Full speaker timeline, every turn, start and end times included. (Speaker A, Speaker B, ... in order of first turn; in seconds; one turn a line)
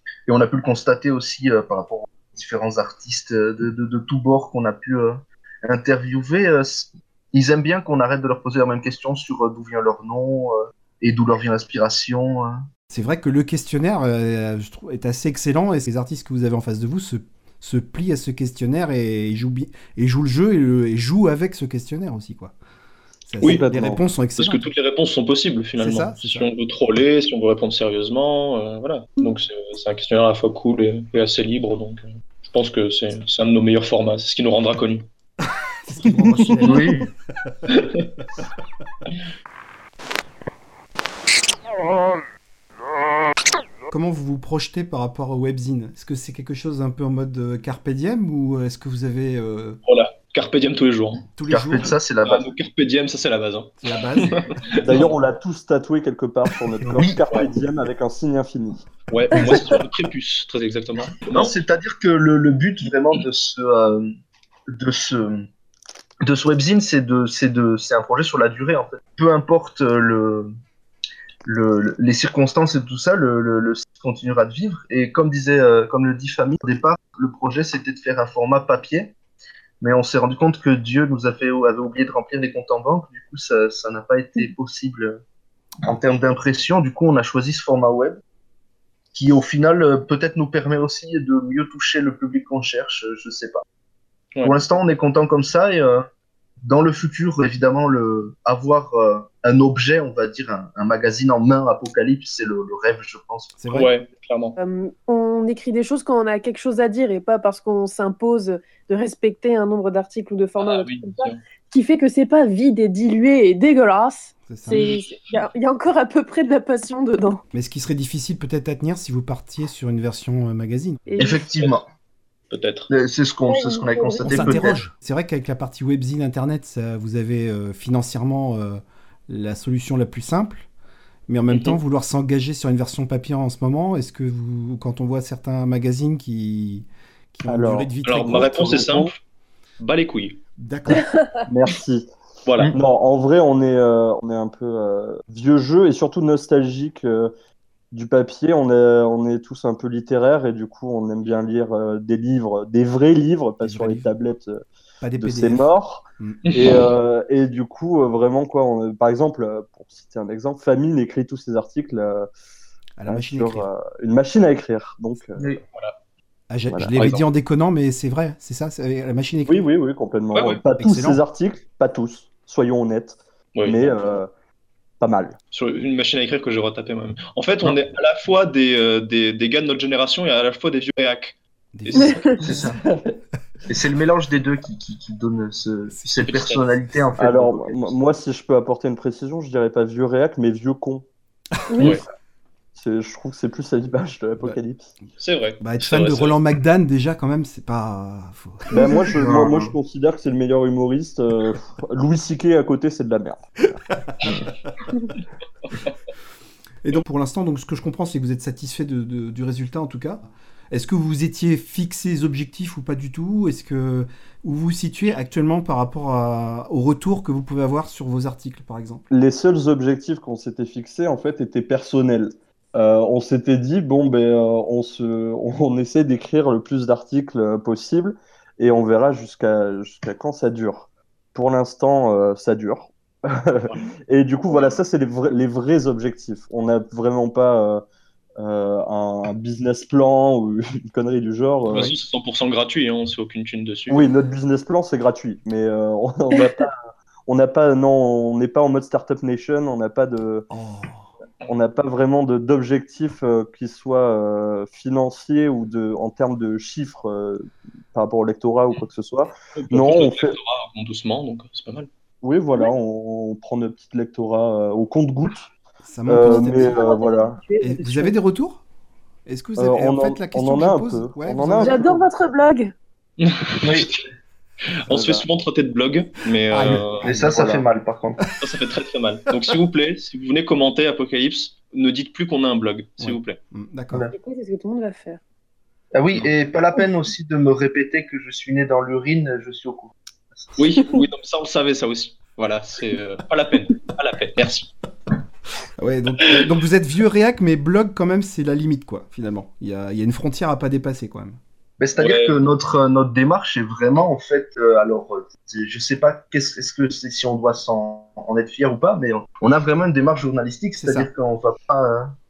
Speaker A: 0.3-12.6
Speaker B: 12.9-22.5
Speaker B: 23.3-24.6
Speaker C: 23.4-24.0
Speaker D: 24.4-35.1
Speaker B: 25.8-26.4
Speaker B: 35.9-37.6
Speaker A: 36.6-37.1
Speaker D: 37.7-38.1
Speaker B: 43.9-49.8
Speaker D: 49.9-51.2
Speaker B: 51.4-51.9
Speaker A: 51.5-52.5
Speaker D: 52.2-55.1
Speaker B: 53.8-54.4
Speaker C: 54.8-58.9
Speaker A: 57.0-57.2
Speaker D: 59.1-61.5
Speaker A: 59.4-59.7
Speaker A: 61.3-64.1
Speaker A: 64.7-65.5
Speaker A: 66.2-70.5
Speaker A: 71.4-79.1
Speaker A: 79.8-85.2
Speaker A: 85.9-88.2
Speaker A: 89.1-93.6
Speaker A: 94.4-96.1
Speaker A: 96.6-103.5
Speaker B: 103.6-103.9
Speaker D: 103.7-104.6
Speaker E: 104.6-117.4
Speaker D: 110.6-111.4
Speaker B: 114.5-114.8
Speaker D: 114.7-115.4
Speaker B: 117.5-121.0
Speaker E: 121.1-121.4
Speaker A: 121.2-121.8
Speaker D: 122.5-122.9
Speaker A: 122.9-124.8
Speaker E: 123.5-124.5
Speaker B: 124.2-130.7
Speaker B: 131.3-138.9
Speaker D: 131.5-131.8
Speaker C: 137.5-137.9
Speaker D: 138.0-139.2
Speaker C: 138.6-139.1
Speaker D: 139.8-140.4
Speaker B: 140.6-141.1
Speaker C: 141.4-142.1
Speaker D: 142.4-142.7
Speaker C: 142.7-147.3
Speaker C: 147.9-154.6
Speaker B: 153.6-154.1
Speaker B: 155.0-156.4
Speaker C: 155.2-162.3
Speaker D: 156.5-156.8
Speaker B: 163.0-163.7
Speaker C: 163.1-165.6
Speaker B: 166.5-169.6
Speaker C: 166.7-166.9
Speaker D: 167.0-167.2
Speaker C: 169.4-174.3
Speaker D: 170.3-170.6
Speaker B: 170.8-171.2
Speaker D: 173.6-174.2
Speaker C: 175.0-175.4
Speaker D: 175.5-182.7
Speaker B: 181.8-182.7
Speaker E: 182.0-182.3
Speaker A: 182.4-182.8
Speaker C: 182.7-183.2
Speaker A: 183.7-187.8
Speaker B: 185.9-186.3
Speaker D: 186.2-186.7
Speaker C: 187.2-191.1
Speaker E: 191.7-192.0
Speaker D: 191.8-192.0
Speaker C: 192.8-194.9
Speaker D: 195.2-196.4
Speaker B: 195.6-198.7
Speaker C: 198.7-203.8
Speaker A: 199.1-199.7
Speaker B: 203.9-204.3
Speaker B: 206.8-219.0
Speaker C: 219.1-237.8
Speaker D: 234.5-234.8
Speaker C: 238.4-241.9
Speaker D: 241.7-244.1
Speaker C: 243.9-246.8
Speaker C: 247.3-250.5
Speaker B: 250.5-251.1
Speaker C: 251.4-260.4
Speaker D: 259.6-261.9
Speaker C: 262.2-265.5
Speaker B: 265.9-266.9
Speaker C: 266.1-267.4
Speaker E: 266.3-268.1
Speaker B: 267.6-268.6
Speaker B: 269.2-271.8
Speaker C: 269.6-272.1
Speaker E: 271.6-272.7
Speaker D: 273.2-274.0
Speaker A: 273.6-273.9
Speaker D: 274.7-277.1
Speaker C: 274.9-275.2
Speaker B: 276.5-277.1
Speaker A: 277.0-278.2
Speaker C: 277.1-277.7
Speaker D: 278.4-283.4
Speaker B: 283.0-284.1
Speaker E: 284.1-285.2
Speaker A: 285.9-290.6
Speaker D: 290.6-294.7
Speaker B: 295.8-301.4
Speaker A: 301.8-312.1
Speaker D: 302.0-302.4
Speaker B: 310.8-311.1